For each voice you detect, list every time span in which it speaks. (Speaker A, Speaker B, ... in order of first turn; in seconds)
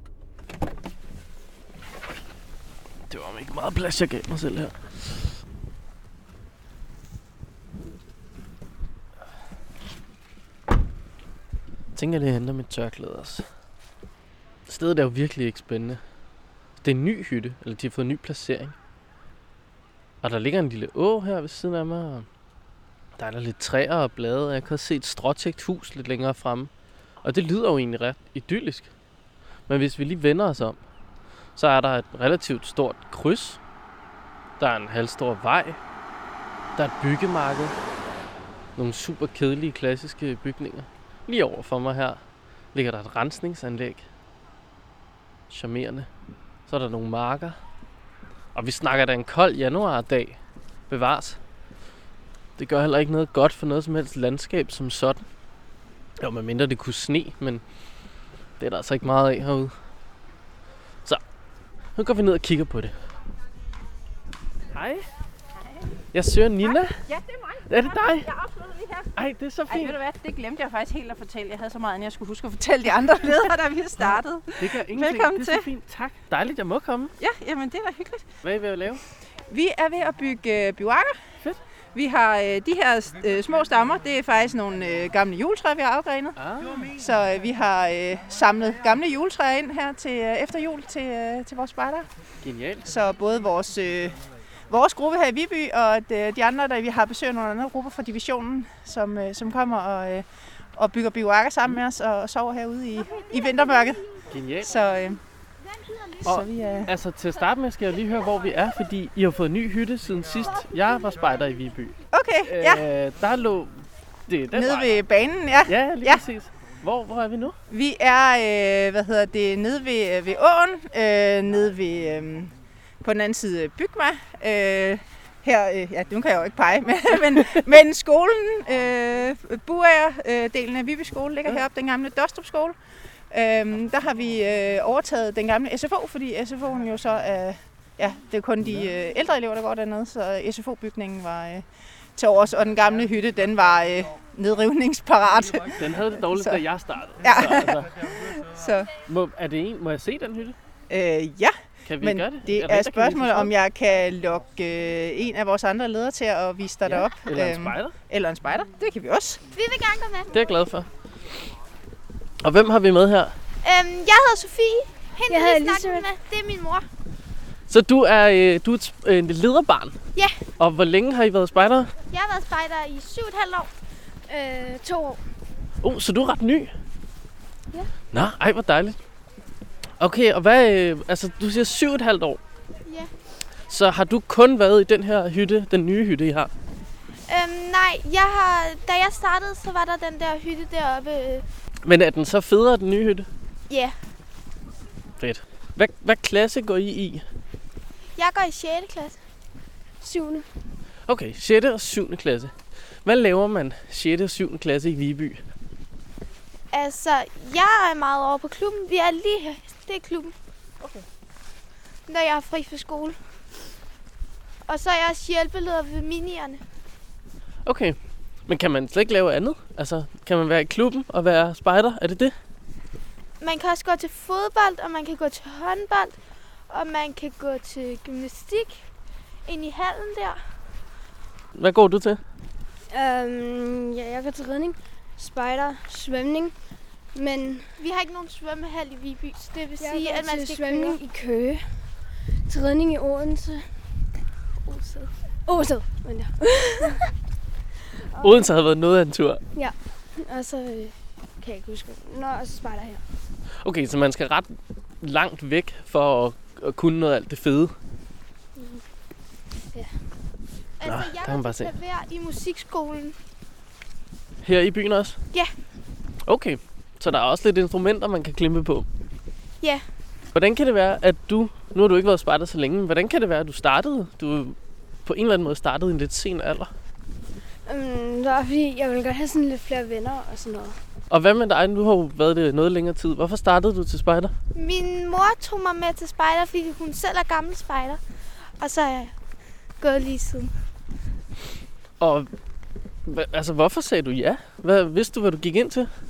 Speaker A: 3.1-5.2, 11.9-13.4, 14.7-16.0, 16.8-18.7, 20.2-22.3, 23.2-26.7, 27.2-28.9, 29.7-30.8, 31.6-33.6, 34.6-35.8, 36.8-37.7, 38.8-42.2, 42.7-44.0, 45.5-46.1, 46.7-47.6, 48.5-50.4, 50.9-51.4, 52.6-55.2, 56.2-57.6, 58.6-59.7, 62.0-62.9, 64.7-65.1, 66.1-66.9, 67.7-68.3, 69.2-70.0, 74.0-77.1, 78.4-79.0, 86.4-86.8, 92.4-92.9, 104.3-104.8, 106.2-111.9, 112.5-114.9, 115.7-117.5, 145.8-147.9, 149.1-150.6, 151.8-153.5, 156.8-157.9, 160.3-160.9, 162.4-163.3, 167.7-169.9, 170.6-171.9, 175.8-176.7, 178.1-179.0, 180.0-182.4, 183.7-186.5, 191.8-193.3, 195.2-197.2, 201.1-202.5, 203.0-205.4, 217.6-218.0, 218.5-222.3, 231.5-232.2, 248.2-249.4, 253.6-257.7, 260.9-261.7, 264.4-265.2, 266.3-268.9, 270.3-276.7, 281.1-284.3, 292.0-292.3, 293.1-295.9
Speaker B: 67.0-69.0, 69.7-75.7, 77.2-78.3, 79.5-81.2, 81.9-92.1, 92.8-104.0, 104.6-105.2, 106.2-106.9, 112.1-112.8, 114.5-116.2, 117.7-132.8, 133.3-141.6, 142.2-146.6, 147.2-148.9, 150.9-159.4
Speaker C: 159.5-160.3, 163.6-166.9, 172.1-173.7, 182.8-183.1, 187.3-191.4, 193.7-193.9, 198.2-199.2, 206.7-210.3, 212.1-213.2, 214.7-216.6, 223.4-226.2, 226.7-228.8, 229.4-230.4, 237.8-241.0, 244.6-245.1, 260.8-263.1, 284.5-288.0, 288.6-289.1, 289.8-290.5
Speaker D: 165.3-166.1, 174.3-175.2, 200.0-200.4, 232.9-236.5, 237.1-237.7, 239.8-241.7, 242.5-243.7, 245.5-247.0, 248.2-248.5, 249.5-253.0, 258.6-258.8, 277.6-280.8